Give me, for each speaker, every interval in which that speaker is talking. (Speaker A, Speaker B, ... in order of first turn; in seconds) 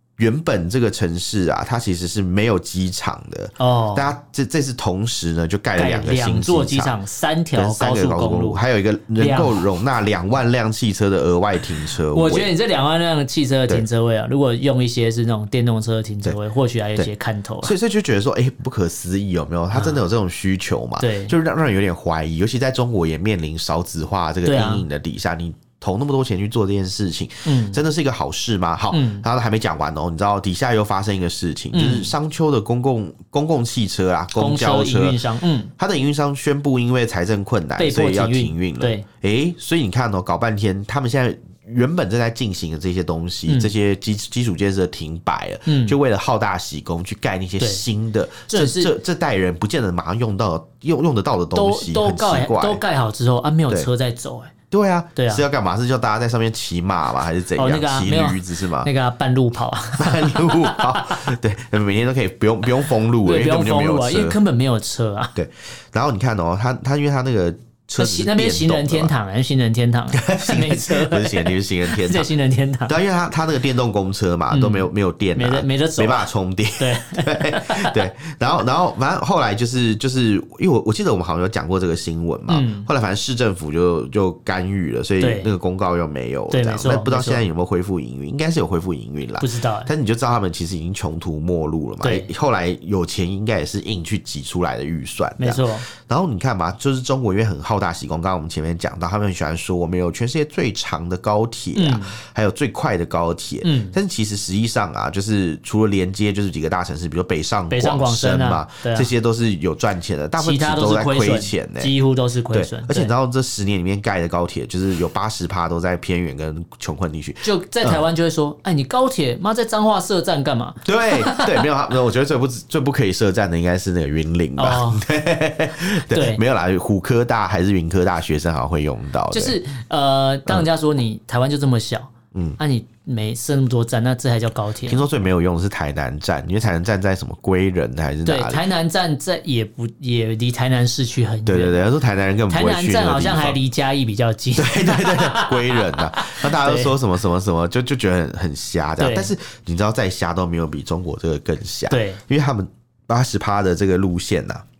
Speaker A: 0.2-7.0, 7.5-12.5, 17.6-35.2, 35.8-52.8, 54.7-58.9, 60.0-64.4, 65.3-69.1, 70.1-72.3, 72.9-111.9, 112.5-118.0, 120.8-129.6, 134.8-138.6, 141.4-143.6, 144.5-154.6
Speaker B: 3.6-4.1, 5.8-8.6, 9.2-9.6, 12.1-17.7, 19.7-20.0, 21.0-21.3, 24.4-24.9, 27.4-27.8, 28.9-29.2, 31.7-32.1, 34.4-35.7, 37.8-39.0, 43.5-43.7, 45.6-46.0, 47.6-47.8, 48.5-48.9, 51.5-54.5, 55.1-55.4, 57.5-61.3, 63.2-65.3, 68.0-73.0, 74.5-78.0, 82.5-82.9, 85.2-85.5, 86.5-87.5, 89.4-89.9, 92.0-92.3, 95.4-95.9, 101.7-102.2, 103.6-104.0, 107.7-109.1, 110.4-113.1, 117.4-121.7, 124.6-125.0, 126.1-126.4, 129.3-135.0, 138.2-141.8, 142.5-146.9, 149.0-149.3, 151.9-152.2